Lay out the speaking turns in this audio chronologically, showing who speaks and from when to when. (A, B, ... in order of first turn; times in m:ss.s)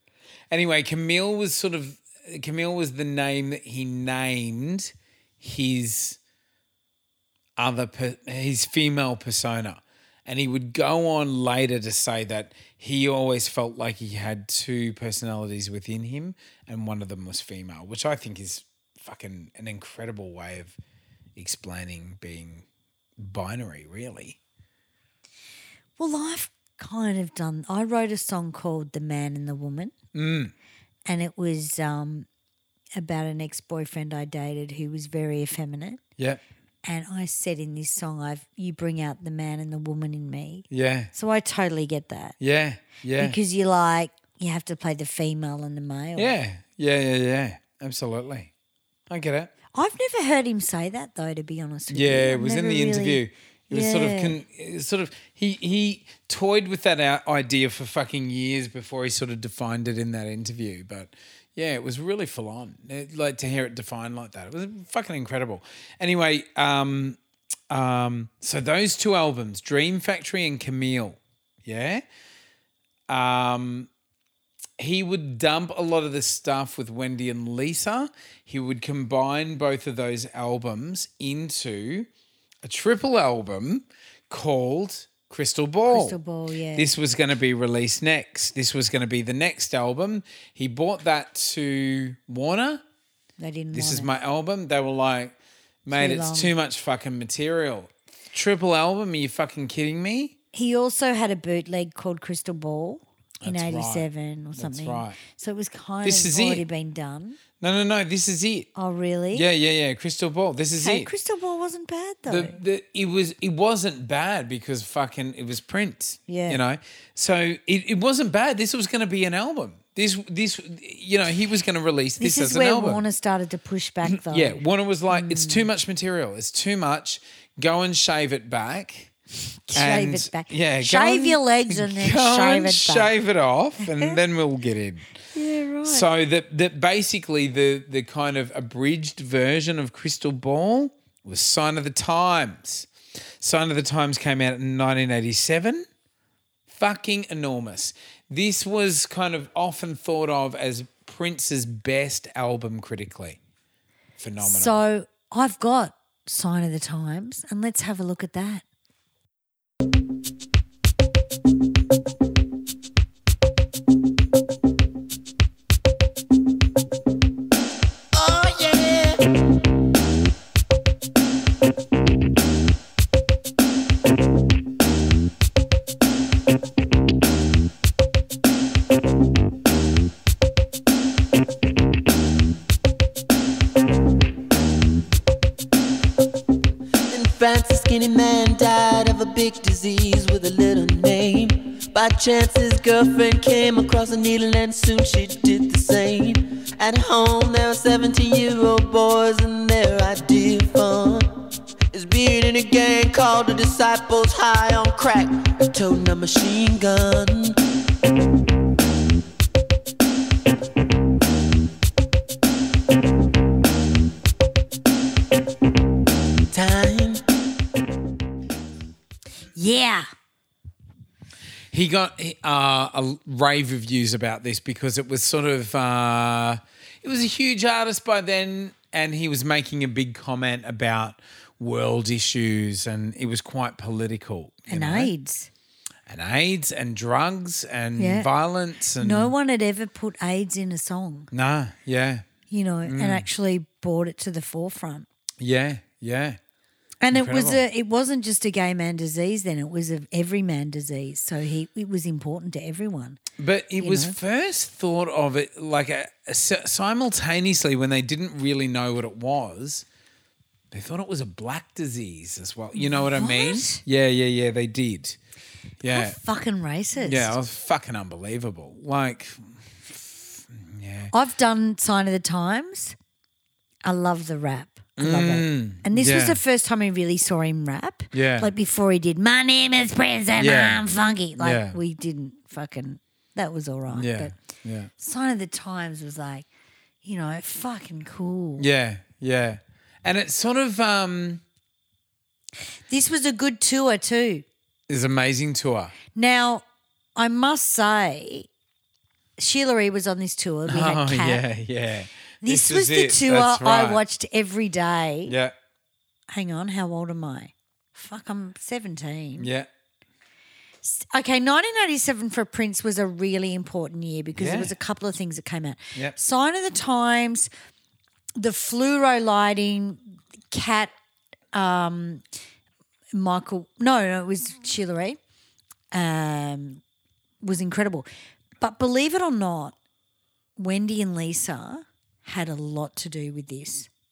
0:00.5-0:06.2 A
0:07.6-0:20.8 A
0:21.4-0:22.6 A
0:23.2-0:24.4 A
0:26.0-0:29.9 B
0:30.1-0:30.5 A
0:31.1-0:32.3 B
0:33.0-0:36.0 B
0:36.8-0:42.4 B
0:40.7-0:41.1 A
0:42.4-0:43.4 A
0:43.2-0:46.3 B
0:46.2-0:48.5 A
0:49.1-0:49.5 A
0:49.7-0:54.4 B
0:51.9-1:07.2 A
1:07.7-1:12.0 A
1:13.1-1:13.9 A
1:14.8-1:22.1 A
1:22.6-1:26.2 A
1:25.9-1:26.9 B
1:26.8-1:32.8 A
1:33.4-1:34.1 B
1:33.7-1:40.4 A
1:35.9-1:36.5 B
1:40.5-1:47.4 B
1:43.4-1:45.2 A
1:46.0-1:46.6 A
1:47.6-1:48.7 A
1:48.8-1:49.4 B
1:49.3-1:51.1 A
1:50.8-1:52.6 B
1:52.3-2:03.0 A
1:56.3-1:56.6 B
2:02.2-2:05.7 B
2:04.1-2:09.1 A
2:09.7-2:13.1 B
2:09.7-2:15.1 A
2:15.3-2:16.1 B
2:15.8-2:22.9 A
2:23.4-2:25.8 A
2:26.7-2:33.4 A
2:34.2-2:34.8 A
2:34.4-2:38.6 B
2:48.1-2:49.4 C
3:07.1-3:21.3 C
3:21.9-3:27.6 C
3:36.5-3:37.2 C
3:39.6-3:40.0 B
3:41.7-3:55.1 A
3:54.7-3:55.5 B
3:56.1-3:59.3 A
3:58.0-3:58.3 B
3:59.0-4:01.3 B
4:01.3-4:02.3 A
4:02.5-4:05.1 B
4:02.8-4:03.3 A
4:05.4-4:06.4 A
4:07.0-4:13.2 B
4:07.1-4:07.6 A
4:13.4-4:19.9 A
4:13.8-4:14.2 B
4:20.7-4:25.2 A
4:22.7-4:23.8 B
4:25.8-4:26.2 A
4:25.9-4:27.4 B
4:27.0-4:31.1 A
4:31.1-4:33.0 B
4:33.8-4:44.4 B
4:35.0-4:36.4 A
4:38.1-4:38.5 A
4:40.4-4:40.8 A
4:41.4-4:41.8 A
4:43.9-4:44.9 A
4:45.0-4:46.5 B
4:47.0-4:48.7 B
4:48.6-4:51.4 A
4:52.9-4:54.4 B
4:54.9-4:55.9 A
4:56.2-4:56.6 B
4:57.2-4:58.5 B
4:59.4-5:01.4 B
5:00.7-5:04.0 A
5:02.4-5:05.4 B
5:05.3-5:05.6 A
5:06.3-5:09.5 B
5:09.4-5:09.7 A
5:10.8-5:17.5 B
5:14.4-5:14.8 A
5:18.4-5:20.9 B
5:21.5-5:22.2 B
5:23.1-5:25.2 B
5:25.9-5:26.8 B
5:27.4-5:28.1 B
5:28.6-5:29.8 B
5:30.6-5:33.9 B